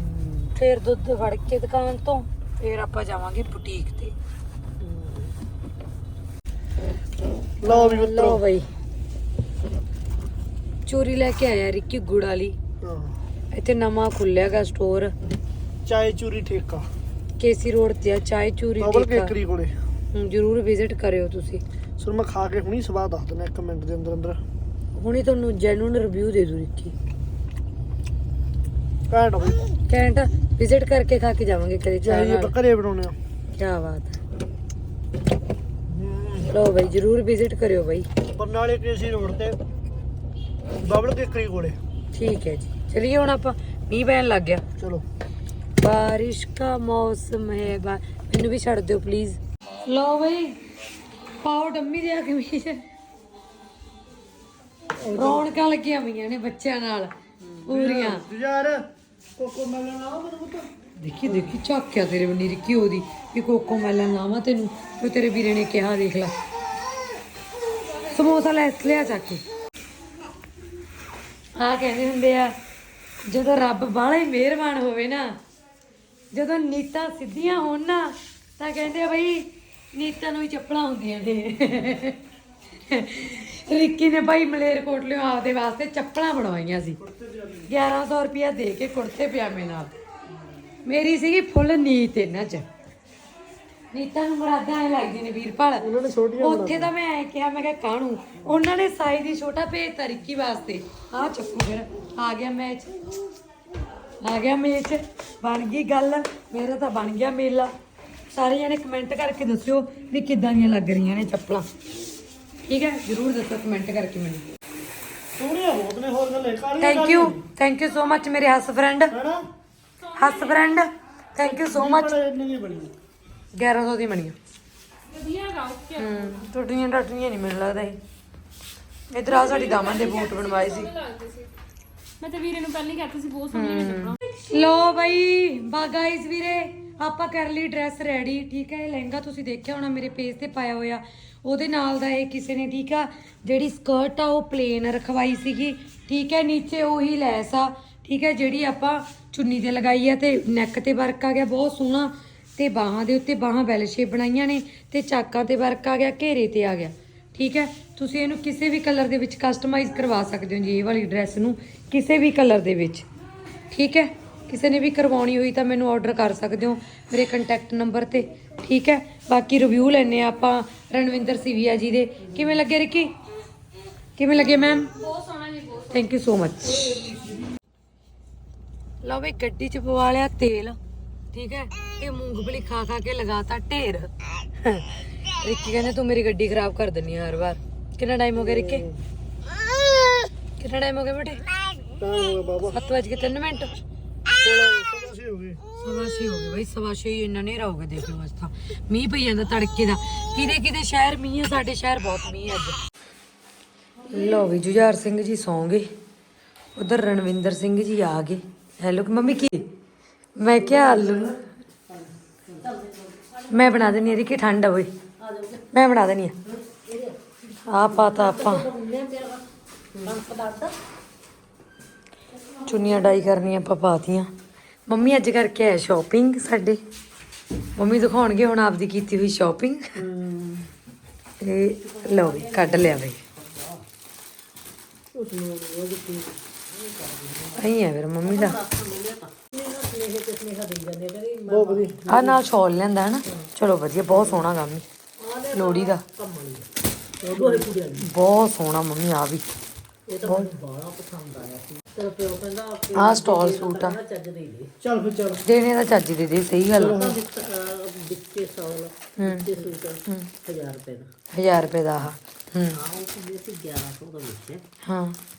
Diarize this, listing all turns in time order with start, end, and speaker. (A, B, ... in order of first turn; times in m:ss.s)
0:00.3-0:04.1 A
0:04.8-0:05.3 B
0:07.6-0:08.4 C
0:07.6-0:08.7 A
0:10.9-0:12.6 A
0:12.8-0:13.2 C
0:13.5-0:15.1 A
0:15.8-0:16.9 C
0:17.4-0:19.3 A
0:18.8-0:19.8 C
0:20.1-0:21.6 A
0:22.0-0:24.4 C
0:25.0-0:27.0 A
0:29.1-0:29.6 C
0:29.9-0:32.6 A
0:32.0-0:33.2 C
0:33.6-0:34.2 A
0:35.9-0:36.5 C
0:36.4-0:38.1 A
0:38.3-0:39.6 C
0:40.8-0:41.8 C
0:42.1-0:44.6 A
0:44.8-0:45.0 C
0:45.8-0:50.6 A
0:51.4-0:52.8 A
0:55.0-0:55.5 C
0:55.1-0:57.1 A
0:57.6-1:00.7 C
0:57.6-0:58.3 A
1:01.0-1:06.3 A
1:01.3-1:01.5 C
1:08.0-1:09.4 A
1:11.6-1:12.5 A
1:13.2-1:15.4 A
1:16.3-1:22.2 A
1:22.8-1:27.0 A
1:27.0-1:27.7 C
1:27.7-1:30.0 A
1:30.9-1:32.7 A
1:33.9-1:43.1 A
1:35.8-1:36.9 C
1:44.2-1:47.7 A
1:48.3-1:51.7 A
1:52.7-1:54.4 A
1:55.4-1:57.4 C
1:56.8-1:59.2 A
1:59.1-1:59.4 C
2:00.1-2:02.2 A
2:00.1-2:00.7 D
2:01.4-2:02.9 C
2:03.5-2:04.4 A
2:05.1-2:06.1 D
2:05.9-2:08.0 A
2:09.1-2:11.0 A
2:09.4-2:11.5 D
2:12.2-2:14.2 D
2:13.5-2:43.1 A
2:43.7-2:53.1 A
2:54.2-2:55.0 A
2:55.0-2:55.9 D
2:55.8-2:57.1 A
2:59.0-3:00.8 A
3:01.3-3:08.9 A
3:08.4-3:09.0 C
3:10.6-3:11.4 A
3:12.0-3:12.8 C
3:12.6-3:13.7 A
3:14.4-3:15.6 C
3:15.8-3:22.8 A
3:24.1-3:25.9 A
3:26.8-3:29.7 A
3:30.4-3:31.4 A
3:30.6-3:31.3 B
3:31.9-3:34.0 B
3:33.5-3:34.9 A
3:35.2-3:35.6 B
3:35.7-3:36.4 A
3:36.5-3:37.3 B
3:37.6-3:38.7 A
3:37.9-3:40.8 B
3:42.6-3:44.3 A
3:44.9-3:46.8 A
3:47.8-3:50.0 A
3:50.0-3:50.7 C
3:51.4-3:53.2 A
3:51.8-3:53.8 B
3:55.1-4:02.0 B
3:57.6-3:58.6 A
4:01.5-4:02.4 C
4:02.1-4:04.9 A
4:05.2-4:06.7 B
4:05.5-4:06.0 A
4:07.2-4:08.1 B
4:07.4-4:07.6 C
4:08.0-4:09.5 A
4:10.1-4:14.7 B
4:10.2-4:10.6 A
4:12.9-4:14.0 A
4:14.8-4:15.4 C
4:15.4-4:17.1 A
4:16.8-4:17.2 C
4:16.8-4:21.1 B
4:19.2-4:20.3 A
4:21.3-4:22.8 A
4:22.7-4:24.6 B
4:24.8-4:25.2 A